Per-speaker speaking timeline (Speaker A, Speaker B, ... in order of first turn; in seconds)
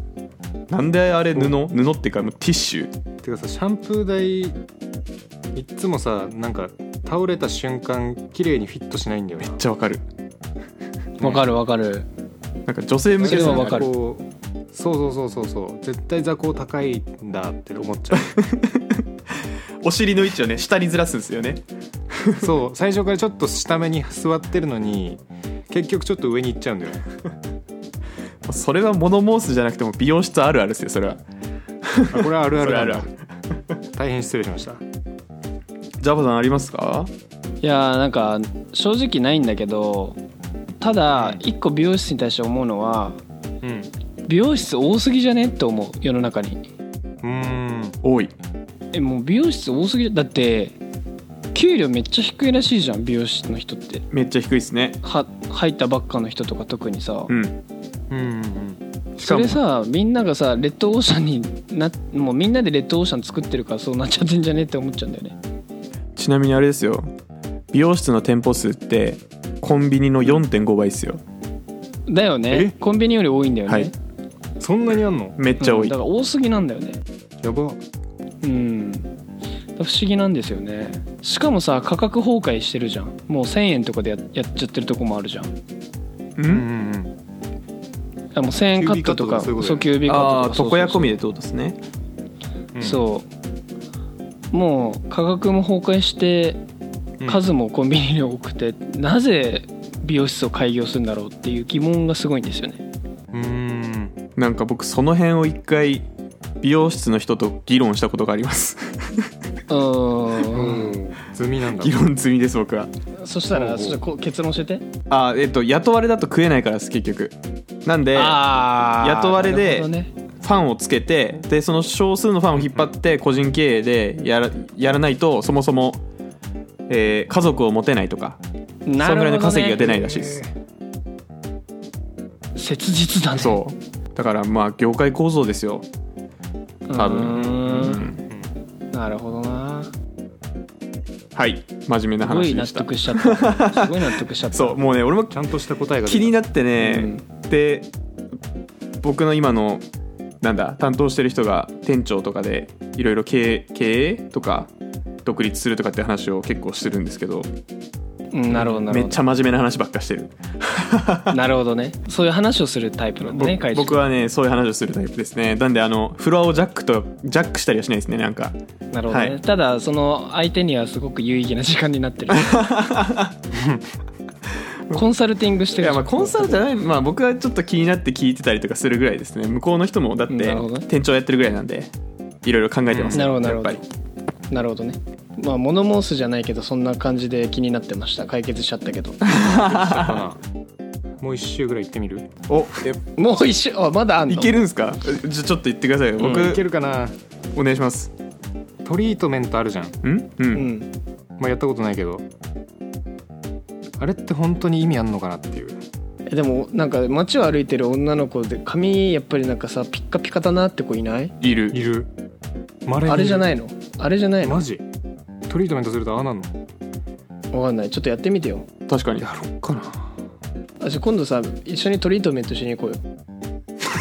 Speaker A: 0.7-2.9, 9.5-10.0, 12.7-13.9, 18.2-19.0, 19.8-21.6, 22.1-22.5, 28.4-31.2, 31.8-33.1, 36.0-37.1, 48.0-48.3, 54.1-55.0, 57.3-57.5, 59.2-59.6, 66.2-67.1, 67.7-71.2, 75.4-75.9, 86.4-86.7, 90.0-91.8, 104.4-106.0, 106.6-109.3, 111.7-112.9, 115.1-118.4, 119.0-119.9, 120.4-126.0, 126.9-128.4, 129.0-130.4, 133.4-135.8, 136.9-138.2, 141.3-145.4, 146.0-147.9, 149.0-149.8, 150.4-154.7, 155.2-157.5, 158.6-161.3, 163.3-168.6, 169.1-169.3, 172.3-173.3, 175.8-181.9, 182.4-183.8, 189.2-190.2, 192.5-193.0, 194.3-196.6, 197.5-198.1, 200.0-200.7, 211.4-211.8, 218.9-219.2
Speaker B: 3.2-4.6, 5.5-9.6, 13.2-18.3, 22.4-27.1, 32.1-33.1, 33.9-34.8, 41.1-41.4, 43.6-43.9, 47.2-48.0, 58.1-58.8, 74.6-75.4, 77.4-77.8, 86.5-87.1, 88.8-89.9, 92.7-93.0, 97.2-97.4, 103.3-104.2, 110.5-112.1, 113.5-114.0, 130.2-130.4, 137.6-138.5, 145.3-146.3, 173.5-173.8, 182.9-183.3, 189.7-190.4, 191.2-192.3, 196.2-197.2, 198.8-200.0, 201.4-202.2, 204.0-205.8, 211.7-212.1, 212.8-213.5, 214.4-214.8, 215.5-216.5, 219.2-220.1
Speaker C: 11.2-12.1, 13.2-13.9, 37.6-40.2, 40.8-43.2, 44.2-46.6, 48.9-50.8, 51.5-54.0, 55.0-57.3, 59.2-65.4, 72.1-73.9, 75.6-77.0, 78.4-79.1, 79.8-85.5, 88.3-91.2, 92.8-93.3, 94.5-96.6, 97.2-102.8, 109.7-111.0, 113.2-114.8, 118.1-120.1, 128.8-130.2, 132.6-133.6, 136.9-138.1, 138.9-139.9, 142.2-144.8, 146.8-147.2, 158.3-159.2, 161.3-164.0, 168.9-172.6, 174.9-176.6, 180.3-180.8, 183.1-183.8, 184.5-189.5, 193.2-194.6, 200.5-200.9, 206.3-211.3, 213.1-214.6, 217.5-218.7, 220.8-223.0